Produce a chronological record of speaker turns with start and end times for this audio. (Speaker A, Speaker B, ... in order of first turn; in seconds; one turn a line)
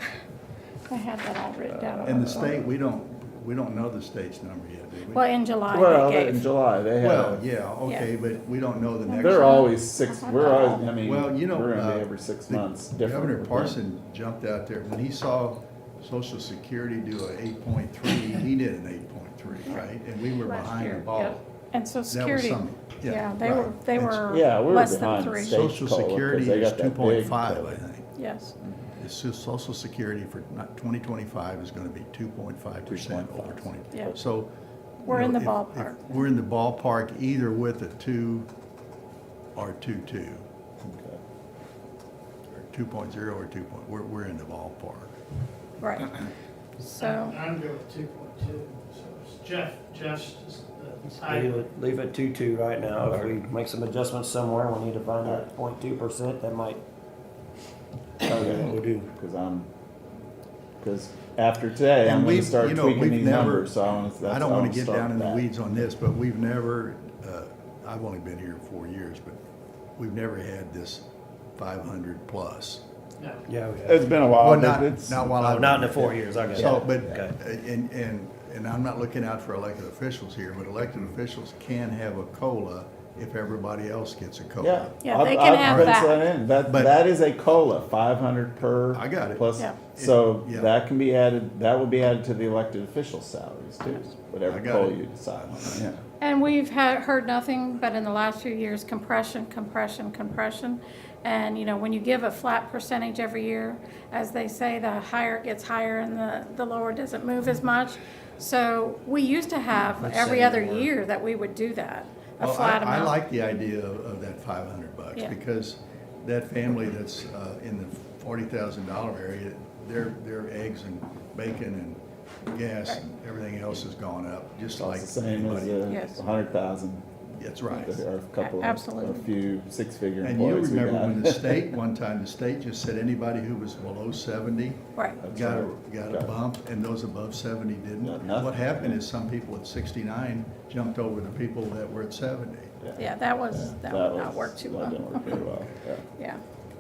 Speaker A: 0.9-2.7
Speaker B: 1.8-2.2
Speaker C: 2.0-5.2
Speaker A: 5.1-6.5
Speaker B: 5.7-7.4
Speaker C: 7.0-9.7
Speaker A: 7.8-8.1
Speaker A: 9.1-10.9
Speaker B: 9.2-13.8
Speaker C: 10.4-21.4
Speaker A: 19.6-25.6
Speaker C: 22.1-24.3
Speaker B: 24.3-27.8
Speaker C: 25.5-28.1
Speaker A: 28.2-28.6
Speaker B: 28.6-28.9
Speaker C: 29.0-34.5
Speaker B: 32.9-34.1
Speaker A: 33.9-34.2
Speaker C: 35.0-38.5
Speaker A: 35.1-36.2
Speaker C: 39.6-40.4
Speaker B: 40.8-41.2
Speaker C: 42.6-45.1
Speaker A: 45.8-46.1
Speaker D: 46.8-51.7
Speaker A: 46.9-47.4
Speaker E: 51.3-56.8
Speaker B: 58.2-59.7
Speaker E: 58.3-59.1
Speaker B: 60.8-65.8
Speaker C: 62.0-69.4
Speaker C: 70.0-71.0
Speaker C: 71.6-72.8
Speaker D: 73.2-73.5
Speaker E: 73.5-74.0
Speaker B: 73.8-75.3
Speaker C: 74.3-85.0
Speaker E: 75.3-77.4
Speaker B: 84.6-96.0
Speaker A: 85.0-86.3
Speaker C: 85.5-86.0
Speaker C: 86.7-87.0
Speaker C: 88.9-90.7
Speaker C: 94.5-95.0
Speaker A: 96.2-113.1
Speaker E: 110.0-110.9
Speaker C: 112.4-125.8
Speaker B: 124.8-127.0
Speaker A: 125.9-126.2
Speaker C: 127.4-128.0
Speaker B: 127.7-131.7
Speaker A: 127.7-129.3
Speaker C: 130.2-134.8
Speaker A: 135.0-135.2
Speaker B: 135.2-136.4
Speaker C: 135.3-142.8
Speaker B: 138.0-139.0
Speaker B: 142.8-146.0
Speaker A: 143.0-145.4